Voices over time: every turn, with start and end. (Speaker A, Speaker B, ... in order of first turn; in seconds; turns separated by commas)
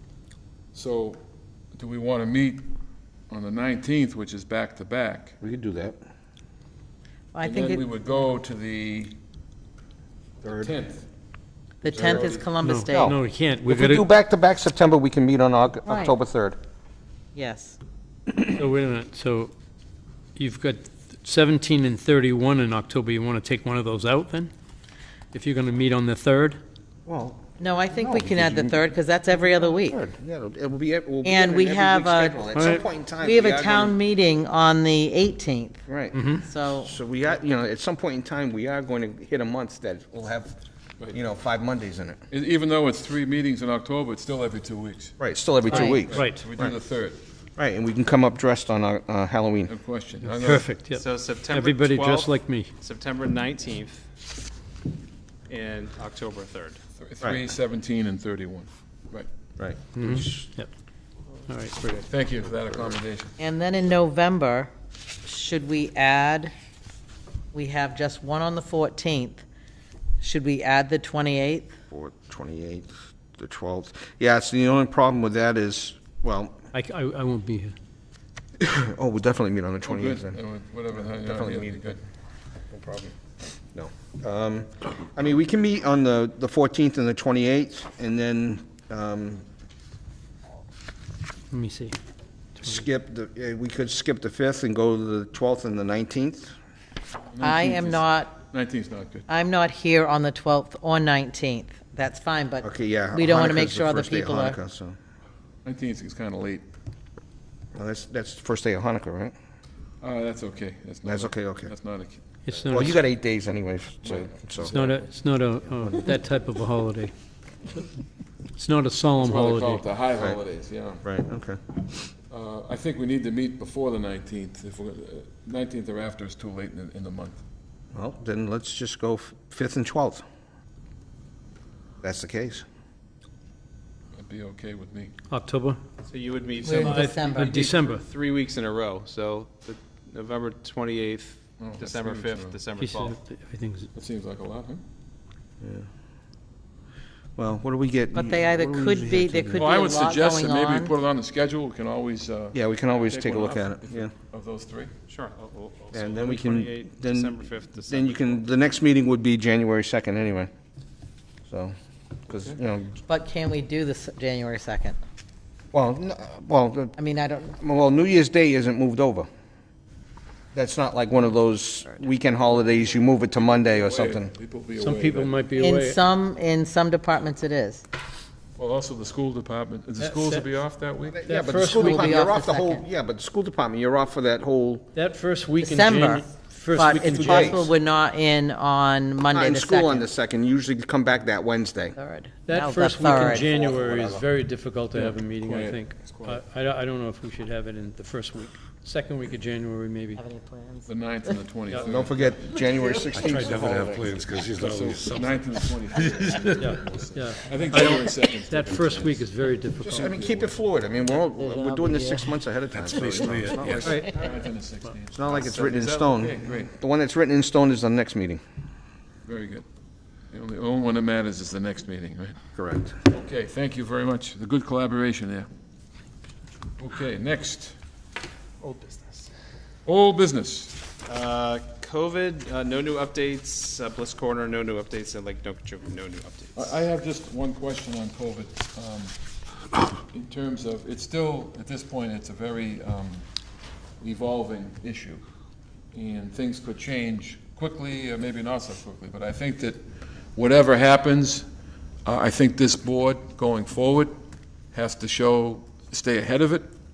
Speaker A: 0.7-1.2, Speaker A: 1.7-2.7, Speaker A: 3.3-5.4, Speaker B: 5.4-6.0, Speaker C: 7.3-7.9, Speaker A: 7.4-9.2, Speaker A: 10.4-11.1, Speaker C: 11.8-13.2, Speaker A: 11.9-12.5, Speaker B: 11.9-16.6, Speaker D: 12.6-14.1, Speaker C: 15.9-16.1, Speaker C: 17.4-17.8, Speaker D: 18.3-19.5, Speaker D: 20.4-24.5, Speaker D: 25.3-26.6, Speaker B: 27.1-28.9, Speaker C: 27.6-30.0, Speaker B: 29.7-34.0, Speaker C: 31.2-32.5, Speaker D: 32.5-32.8, Speaker C: 33.0-35.8, Speaker B: 35.9-40.5, Speaker D: 36.1-36.4, Speaker C: 36.4-36.9, Speaker B: 41.1-42.2, Speaker A: 42.3-45.1, Speaker B: 45.2-46.7, Speaker D: 45.7-46.5, Speaker A: 45.7-47.2, Speaker B: 47.6-49.7, Speaker A: 49.7-50.7, Speaker D: 50.2-52.7, Speaker E: 50.9-54.0, Speaker E: 55.5-56.8, Speaker A: 57.0-59.3, Speaker B: 59.6-60.5, Speaker D: 60.0-60.7, Speaker D: 61.5-62.1, Speaker A: 62.0-63.4, Speaker C: 63.4-64.7, Speaker C: 65.2-66.5, Speaker C: 67.5-69.4, Speaker C: 70.2-71.7, Speaker B: 71.9-76.6, Speaker D: 76.7-77.8, Speaker B: 78.6-80.4, Speaker A: 79.9-82.0, Speaker B: 81.0-82.0, Speaker B: 82.7-83.1, Speaker B: 83.7-89.4, Speaker D: 91.5-92.0, Speaker D: 92.6-92.8, Speaker B: 92.6-96.5, Speaker A: 97.3-99.3, Speaker C: 97.4-98.4, Speaker C: 99.3-104.6, Speaker B: 102.6-105.0, Speaker A: 105.7-106.7, Speaker B: 107.8-109.3, Speaker A: 110.0-112.2, Speaker B: 111.0-111.7, Speaker D: 112.5-113.0, Speaker B: 112.6-114.8, Speaker A: 114.0-115.1, Speaker D: 114.6-117.1, Speaker D: 118.5-119.8, Speaker A: 119.2-121.0, Speaker B: 121.0-121.6, Speaker A: 122.3-127.4, Speaker B: 127.9-130.2, Speaker B: 132.0-132.7, Speaker A: 134.2-135.1, Speaker D: 135.3-135.8, Speaker E: 136.1-143.2, Speaker A: 136.6-137.1, Speaker C: 136.6-137.8, Speaker D: 136.8-138.0, Speaker A: 141.6-142.6, Speaker D: 142.8-143.9, Speaker A: 143.9-144.8, Speaker B: 145.6-145.9, Speaker B: 147.4-149.8, Speaker C: 148.1-150.9, Speaker A: 149.5-154.9, Speaker B: 152.5-154.1, Speaker E: 155.1-158.4, Speaker B: 155.9-160.5, Speaker B: 161.5-161.7, Speaker B: 162.3-163.0, Speaker C: 163.1-165.0, Speaker B: 165.7-167.0, Speaker C: 167.0-167.5, Speaker B: 167.5-169.3, Speaker B: 170.5-174.3, Speaker A: 173.3-175.3, Speaker D: 174.8-176.0, Speaker C: 175.6-177.8, Speaker A: 178.6-181.2, Speaker D: 180.0-180.5, Speaker D: 181.2-182.2, Speaker B: 181.2-184.9, Speaker C: 181.7-182.8, Speaker D: 184.9-187.7, Speaker C: 185.6-190.1, Speaker B: 186.9-187.7, Speaker B: 189.3-192.0, Speaker C: 192.0-193.5, Speaker D: 192.5-200.2, Speaker B: 193.2-194.2, Speaker A: 194.9-196.4, Speaker C: 200.1-201.4, Speaker A: 200.9-202.7, Speaker B: 201.8-204.1, Speaker F: 203.0-206.7, Speaker D: 203.3-203.7, Speaker A: 204.5-209.2, Speaker D: 206.6-210.2, Speaker B: 209.9-213.9, Speaker A: 210.0-210.5, Speaker C: 211.3-212.3, Speaker F: 212.7-214.0, Speaker A: 213.6-216.7, Speaker B: 215.1-218.4, Speaker A: 219.3-219.7, Speaker A: 220.3-222.4, Speaker B: 222.6-223.0, Speaker A: 223.1-225.5, Speaker A: 226.8-227.8, Speaker E: 228.6-229.3, Speaker A: 229.9-230.8, Speaker E: 231.1-236.8, Speaker A: 236.6-239.1, Speaker A: 240.0-243.2, Speaker A: 244.0-245.2, Speaker A: 245.9-249.8, Speaker A: 250.3-251.5, Speaker A: 252.1-254.2, Speaker A: 254.7-256.7